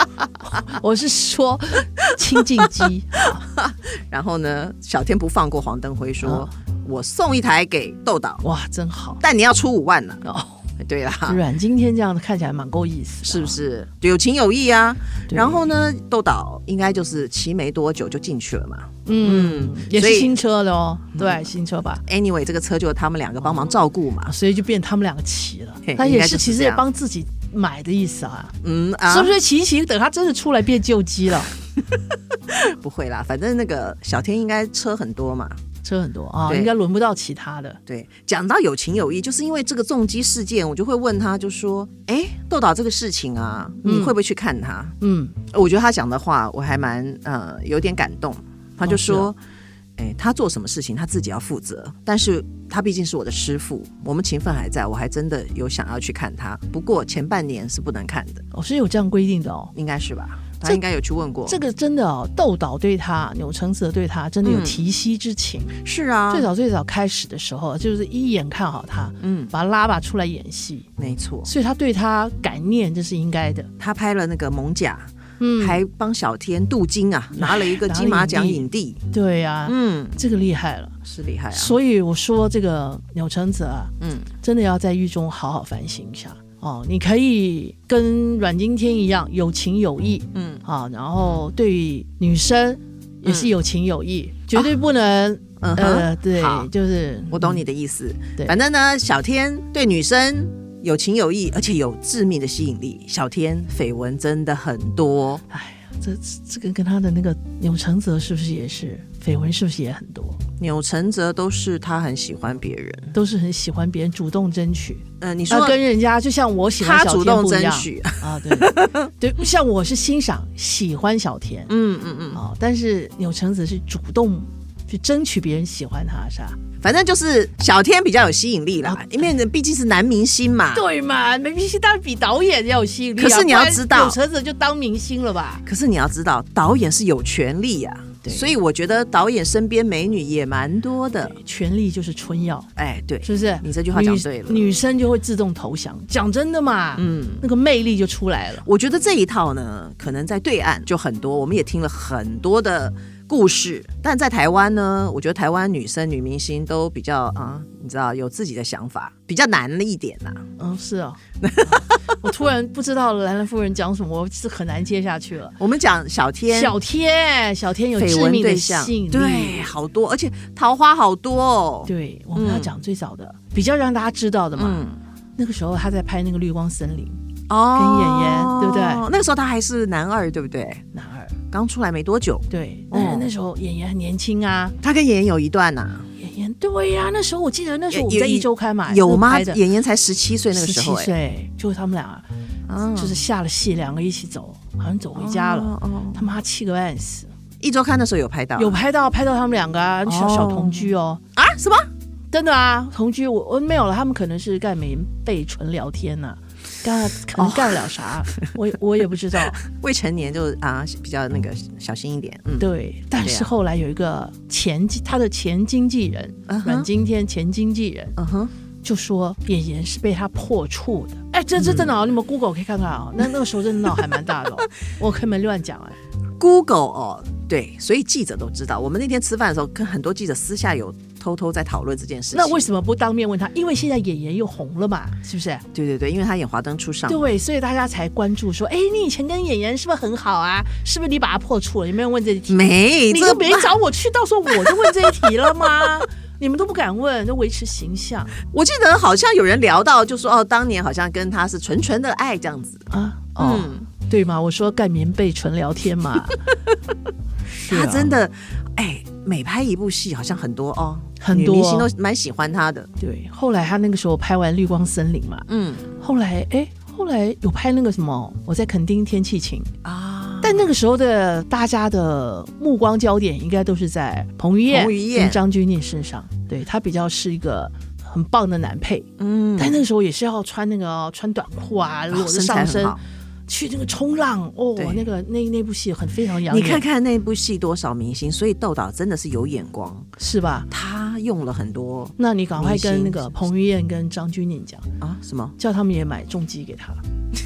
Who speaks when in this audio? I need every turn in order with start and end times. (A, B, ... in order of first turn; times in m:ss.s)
0:00.5-0:03.4 A
0:03.4-0:08.4 B
0:06.2-0:06.5 A
0:08.4-0:09.2 A
0:09.2-0:10.2 B
0:10.2-0:10.6 A
0:10.8-0:11.4 B
0:11.2-0:13.6 A
0:13.2-0:20.4 B
0:15.3-0:15.6 A
0:19.0-0:22.0 A
0:22.0-0:24.4 B
0:24.2-0:28.5 A
0:25.8-0:26.8 B
0:28.6-0:29.4 B
0:29.0-0:31.5 A
0:32.5-0:35.6 B
0:35.8-0:37.8 A
0:36.4-0:36.7 B
0:37.9-0:44.9 B
0:43.8-0:44.1 A
0:45.0-0:45.4 A
0:45.5-0:49.4 B
0:48.8-0:49.3 A
0:50.0-0:58.4 B
0:58.5-0:59.7 A
0:59.7-1:01.6 B
1:01.4-1:05.7 A
1:04.4-1:04.8 B
1:05.8-1:06.5 B
1:06.3-1:10.9 A
1:09.2-1:09.5 B
1:11.0-1:11.5 B
1:11.4-1:13.7 A
1:13.8-1:19.0 B
1:15.4-1:15.8 A
1:17.4-1:20.9 A
1:19.6-1:20.2 B
1:21.0-1:21.8 B
1:21.5-1:37.6 A
1:24.0-1:24.3 B
1:30.3-1:30.6 B
1:33.2-1:33.5 B
1:35.6-1:36.7 B
1:37.3-1:45.4 B
1:45.5-1:50.4 A
1:50.6-1:53.1 B
1:53.1-2:01.7 A
1:55.2-1:55.8 B
1:56.8-1:59.1 B
2:01.7-2:02.4 B
2:02.3-2:06.6 A
2:06.8-2:10.8 B
2:08.8-2:09.2 A
2:10.7-2:15.6 A
2:13.2-2:14.2 B
2:15.6-2:21.3 B
2:18.2-2:18.5 A
2:21.2-2:22.7 A
2:22.8-2:24.7 B
2:23.2-2:28.6 A
2:27.0-2:27.5 B
2:28.6-2:40.4 B
2:40.6-2:45.6 A
2:41.4-2:41.8 B
2:45.6-2:46.8 B
2:46.5-2:49.7 A
2:47.9-2:52.7 B
2:51.8-2:54.8 A
2:54.6-2:55.0 B
2:55.4-2:57.2 A
2:57.5-3:00.8 B
2:57.7-2:59.0 A
3:00.9-3:01.3 A
3:01.5-3:03.3 B
3:02.5-3:04.8 A
3:04.8-3:06.1 B
3:06.2-3:09.6 A
3:07.9-3:11.1 B
3:10.5-3:12.2 A
3:12.7-3:13.2 B
3:13.0-3:17.3 A
3:15.1-3:16.3 B
3:17.6-3:18.8 B
3:18.6-3:21.2 A
3:20.0-3:21.9 B
3:22.3-3:29.6 A
3:27.4-3:28.0 B
3:29.5-3:32.7 B
3:32.6-3:38.2 A
3:33.2-3:33.5 B
3:36.5-3:36.9 B
3:38.2-3:38.5 B
3:38.8-3:46.0 A
3:41.6-3:41.9 B
3:46.4-3:52.7 B
3:52.3-3:55.6 A
3:55.7-3:57.3 B
3:57.1-4:08.4 A
4:02.5-4:03.8 B
4:04.5-4:05.6 B
4:08.5-4:13.8 B
4:12.9-4:16.4 A
4:17.5-4:18.2 A
4:17.6-4:22.9 B
4:21.2-4:21.9 A
4:23.0-4:25.4 A
4:25.5-4:25.8 B
4:26.0-4:29.7 A
4:29.8-4:30.7 B
4:30.4-4:46.8 A
4:34.7-4:35.4 B
4:39.2-4:39.8 B
4:42.1-4:43.0 B
4:44.8-4:45.0 B
4:46.5-4:50.1 B
4:50.2-4:50.7 A
4:50.7-4:53.4 B
4:52.2-4:54.9 A
4:55.0-4:55.5 B
4:55.6-4:57.0 A